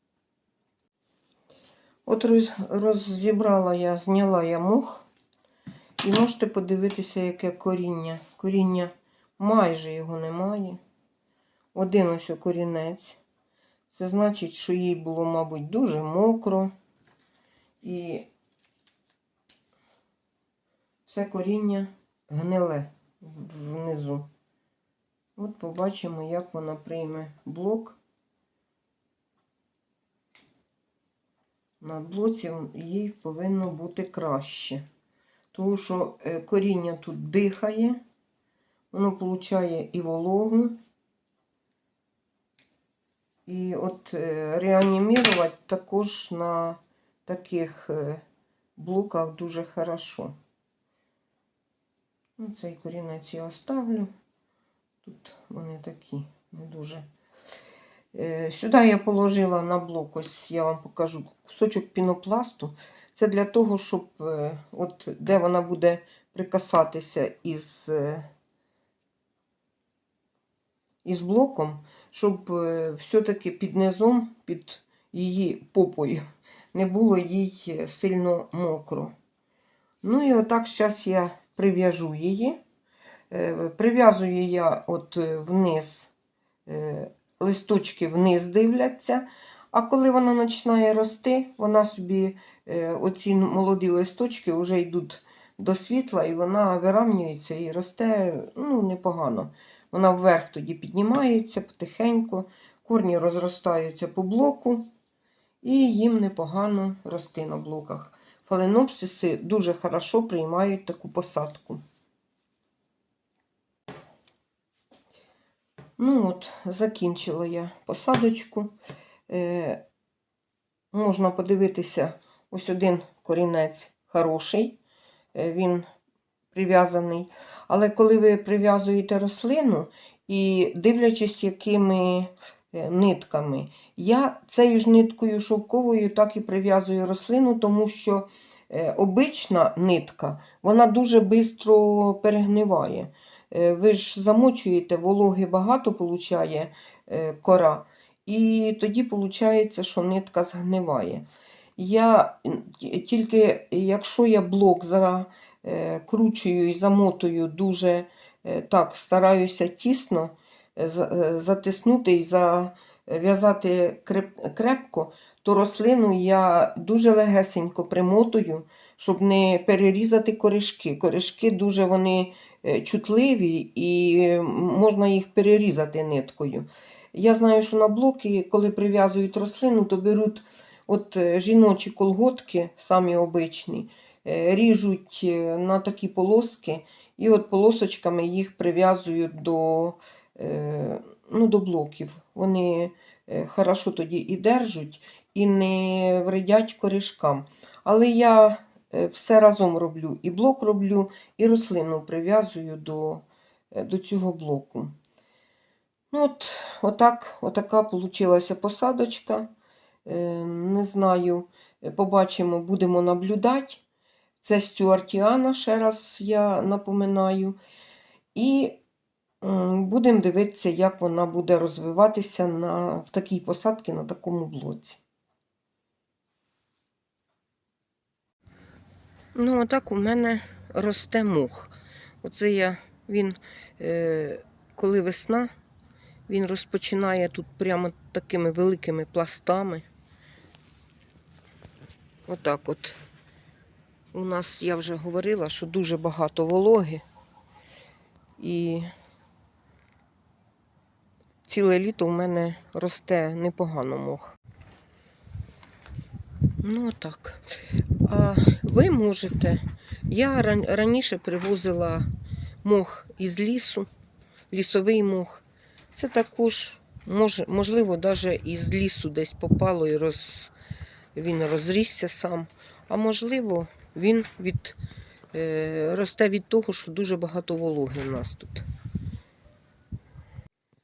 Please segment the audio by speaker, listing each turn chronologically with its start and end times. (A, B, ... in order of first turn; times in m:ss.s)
0:02.1-0:05.0 A
0:06.0-0:10.8 A
0:11.8-0:13.2 A
0:13.9-0:16.7 A
0:17.8-0:18.3 A
0:21.1-0:24.3 A
0:25.4-0:28.0 A
0:31.8-0:34.8 A
0:35.5-0:38.0 A
0:38.9-0:40.8 A
0:43.5-0:48.2 A
0:48.8-0:50.4 A
0:52.4-0:54.1 A
0:55.0-0:57.0 A
0:58.1-1:08.3 A
1:11.0-1:19.1 A
1:20.0-1:22.6 A
1:23.3-1:26.1 A
1:26.7-1:44.9 A
1:45.6-1:51.8 A
1:56.0-1:58.7 A
1:59.3-1:59.8 A
2:00.9-2:04.8 A
2:05.4-2:05.8 A
2:06.5-2:31.3 A
2:31.8-3:25.0 A
3:26.1-3:29.5 A
3:30.0-3:33.8 A
3:34.4-3:37.6 A
3:38.4-3:38.8 A
3:39.4-3:45.0 A
3:49.4-3:55.5 A
3:56.3-3:59.9 A
4:02.3-4:03.0 A
4:04.1-4:07.0 A
4:08.4-4:08.9 A
4:11.5-4:14.4 A
4:16.6-4:17.4 A
4:18.0-4:22.1 A
4:22.6-4:23.9 A
4:24.5-4:25.4 A
4:26.0-4:30.5 A
4:31.2-4:34.8 A
4:35.3-4:38.7 A